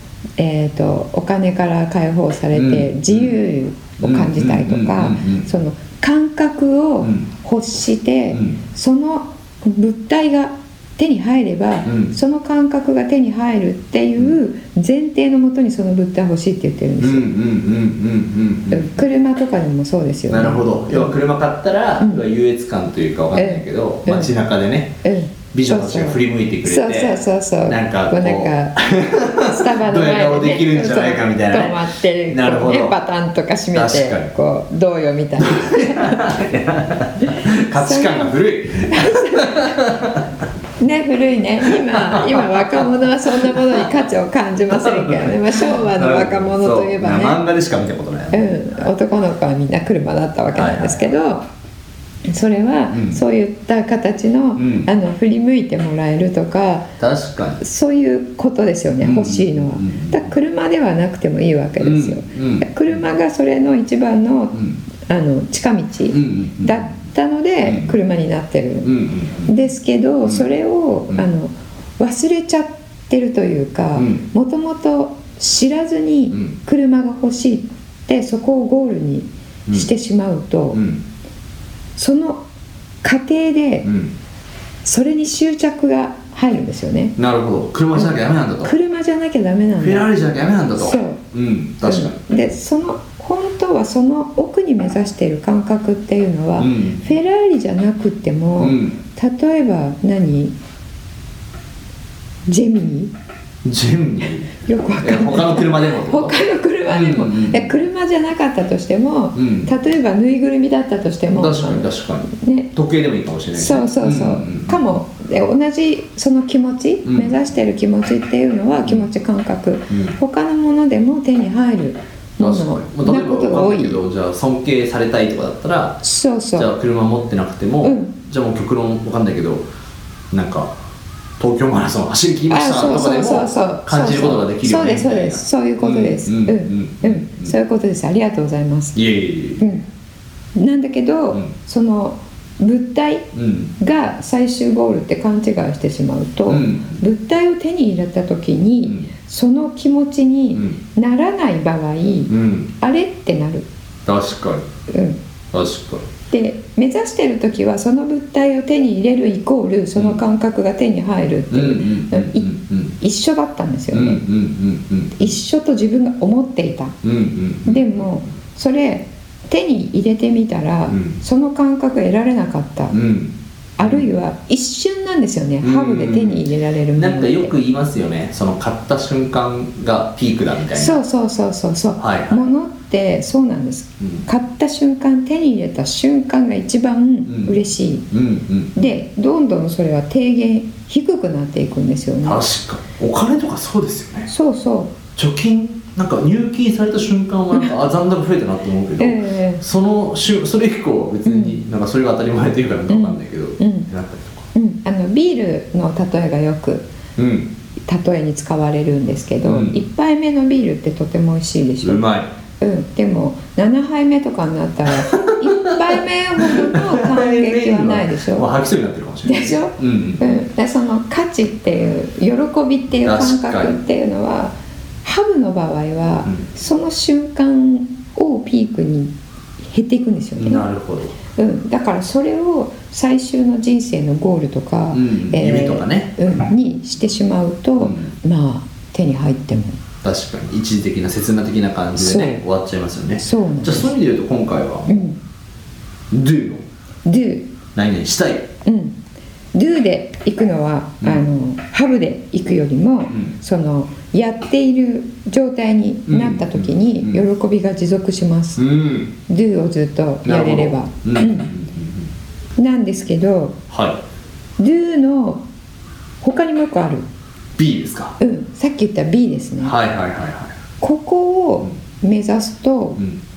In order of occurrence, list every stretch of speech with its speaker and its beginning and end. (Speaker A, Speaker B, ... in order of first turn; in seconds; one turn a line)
Speaker A: 0.4-17.3
Speaker B: 2.5-3.4
Speaker B: 4.0-5.5
Speaker B: 8.3-8.6
Speaker B: 11.8-12.1
Speaker B: 17.0-19.0
Speaker A: 18.7-21.2
Speaker B: 20.3-25.0
Speaker A: 23.3-24.4
Speaker A: 25.0-28.8
Speaker B: 25.5-33.0
Speaker A: 29.4-36.2
Speaker B: 33.7-34.3
Speaker B: 35.4-40.3
Speaker A: 37.3-39.8
Speaker A: 40.8-47.4
Speaker B: 41.6-43.9
Speaker B: 44.7-48.6
Speaker A: 48.3-51.5
Speaker B: 50.5-51.1
Speaker A: 52.3-56.9
Speaker B: 52.9-53.2
Speaker B: 54.6-54.9
Speaker B: 57.0-57.6
Speaker A: 57.6-68.9
Speaker B: 59.0-60.3
Speaker B: 61.8-63.0
Speaker B: 66.1-66.9
Speaker B: 67.6-68.0
Speaker B: 68.8-69.5
Speaker A: 69.5-80.8
Speaker B: 74.0-74.2
Speaker B: 80.7-81.0
Speaker A: 82.0-82.4
Speaker A: 83.0-83.9
Speaker B: 83.8-84.1
Speaker A: 84.8-87.2
Speaker B: 87.2-88.7
Speaker A: 88.0-90.1
Speaker B: 89.8-92.2
Speaker A: 90.8-91.2
Speaker A: 91.8-100.5
Speaker B: 96.6-97.0
Speaker B: 98.6-99.0
Speaker A: 102.5-103.1
Speaker B: 103.6-104.5
Speaker A: 104.6-112.7
Speaker B: 105.0-107.7
Speaker B: 109.3-109.7
Speaker B: 111.3-114.8
Speaker A: 113.6-124.0
Speaker B: 117.0-117.3
Speaker B: 119.9-120.2
Speaker B: 122.4-126.0
Speaker A: 126.0-126.7
Speaker B: 126.6-129.7
Speaker A: 127.8-128.1
Speaker B: 130.3-130.7
Speaker B: 131.4-137.5
Speaker A: 132.5-139.0
Speaker B: 138.9-139.7
Speaker A: 139.6-139.8
Speaker A: 140.6-153.7
Speaker B: 143.3-143.7
Speaker B: 146.5-147.0
Speaker B: 152.3-152.7
Speaker B: 154.1-154.7
Speaker A: 154.9-155.2
Speaker B: 155.5-156.1
Speaker A: 156.3-164.2
Speaker B: 160.0-160.2
Speaker B: 161.5-162.9
Speaker B: 163.9-165.3
Speaker A: 165.2-167.0
Speaker B: 167.0-168.1
Speaker A: 167.7-173.0
Speaker B: 170.9-171.2
Speaker B: 172.9-174.1
Speaker A: 173.8-177.5
Speaker B: 175.6-181.0
Speaker A: 180.7-188.1
Speaker B: 182.0-182.5
Speaker B: 187.3-187.6
Speaker B: 188.1-188.7
Speaker A: 188.8-192.4
Speaker B: 192.2-194.3
Speaker A: 194.3-195.0
Speaker B: 195.2-204.5
Speaker A: 199.0-199.6
Speaker A: 201.2-201.6
Speaker A: 202.9-203.9
Speaker A: 204.6-206.9
Speaker B: 207.2-207.5
Speaker A: 207.9-212.0
Speaker B: 209.5-209.8
Speaker B: 211.8-212.3
Speaker A: 212.6-218.5
Speaker B: 214.9-220.4
Speaker A: 219.3-224.5
Speaker B: 223.0-223.8
Speaker A: 225.0-229.1
Speaker A: 229.7-230.7
Speaker B: 230.4-231.2
Speaker A: 231.3-239.8
Speaker B: 234.9-236.1
Speaker B: 237.8-238.1
Speaker B: 240.0-245.1
Speaker A: 242.0-242.4
Speaker A: 243.2-243.9
Speaker A: 244.9-245.2
Speaker B: 246.1-246.6
Speaker A: 247.1-247.5
Speaker B: 247.8-248.5
Speaker A: 248.7-249.0
Speaker A: 249.5-258.6
Speaker B: 256.1-257.2
Speaker B: 258.6-259.1
Speaker A: 259.3-261.5
Speaker B: 260.2-262.1
Speaker A: 262.6-263.6
Speaker B: 263.7-264.0
Speaker A: 264.6-265.4
Speaker A: 266.2-267.1
Speaker B: 267.6-268.2
Speaker A: 268.2-269.8
Speaker B: 269.6-270.6
Speaker A: 270.8-273.0